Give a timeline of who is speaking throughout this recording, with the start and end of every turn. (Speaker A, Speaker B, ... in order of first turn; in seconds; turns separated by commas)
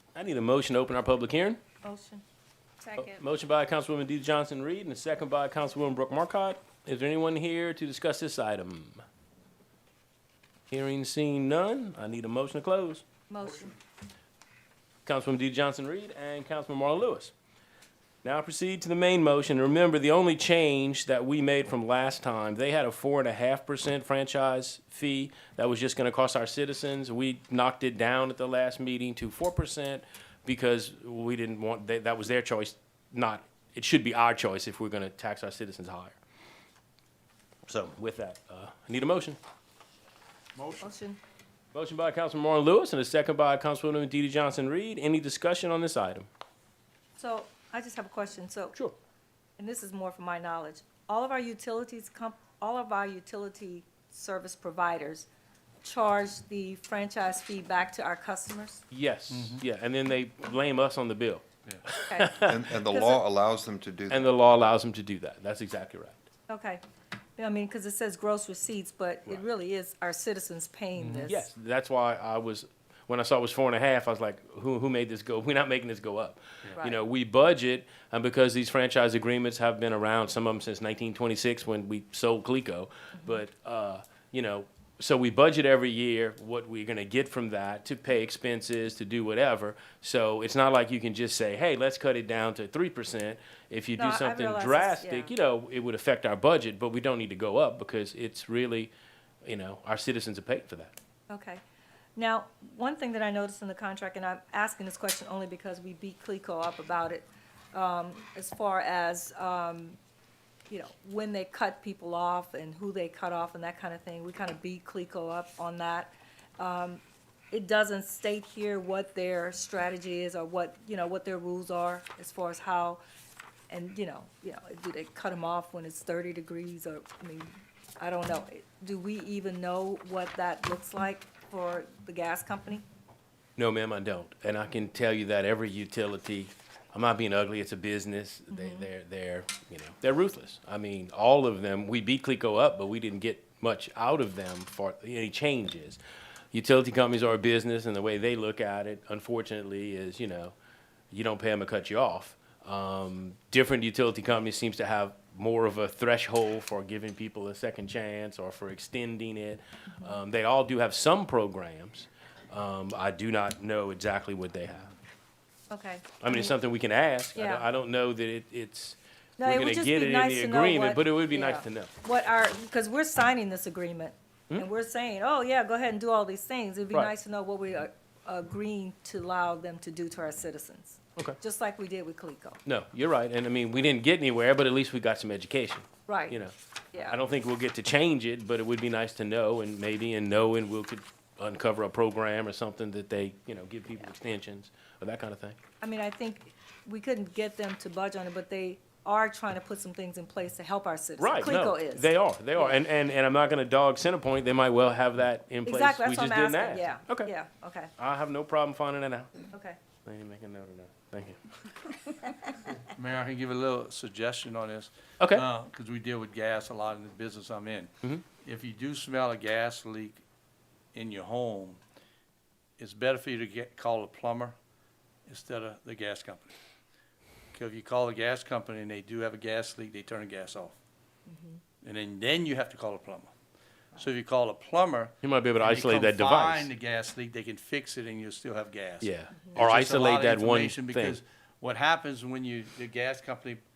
Speaker A: 0.1-1.6, Speaker B: 1.8-2.2, Speaker B: 2.8-3.2, Speaker A: 3.0-9.0, Speaker A: 10.7-13.0, Speaker B: 13.3-13.7, Speaker A: 15.1-17.3, Speaker A: 18.2-36.2, Speaker A: 37.7-39.4, Speaker B: 40.8-41.2, Speaker A: 41.7-46.3, Speaker B: 47.2-48.8, Speaker B: 49.6-55.3, Speaker B: 55.8-58.8, Speaker A: 58.9-62.6, Speaker C: 59.3-59.6, Speaker B: 62.1-63.2, Speaker D: 62.4-64.4, Speaker A: 64.1-66.3, Speaker B: 66.5-66.8, Speaker B: 67.4-71.5, Speaker C: 71.0-71.3, Speaker A: 71.3-98.9, Speaker B: 94.0-95.3, Speaker A: 99.4-101.0, Speaker B: 101.3-101.6, Speaker B: 102.2-110.0, Speaker B: 110.7-123.0, Speaker B: 123.7-127.5, Speaker B: 128.0-132.8, Speaker A: 133.6-146.0, Speaker B: 138.5-138.9, Speaker A: 146.5-150.5, Speaker A: 151.1-164.9, Speaker B: 165.7-166.5, Speaker A: 166.2-171.9, Speaker B: 167.3-167.7, Speaker B: 169.4-182.6, Speaker A: 182.7-186.5, Speaker B: 186.1-186.4, Speaker A: 187.1-195.6, Speaker B: 195.8-202.7, Speaker A: 201.2-207.3, Speaker B: 205.7-207.9, Speaker A: 208.0-209.3, Speaker B: 209.5-209.8, Speaker A: 210.1-211.4, Speaker C: 212.9-220.2, Speaker A: 215.2-215.5, Speaker C: 220.9-221.8, Speaker C: 222.8-224.6, Speaker C: 225.3-226.5, Speaker C: 227.5-230.8, Speaker B: 231.3-231.6, Speaker C: 231.8-233.3, Speaker C: 234.0-243.6, Speaker A: 235.2-236.7, Speaker A: 239.0-241.2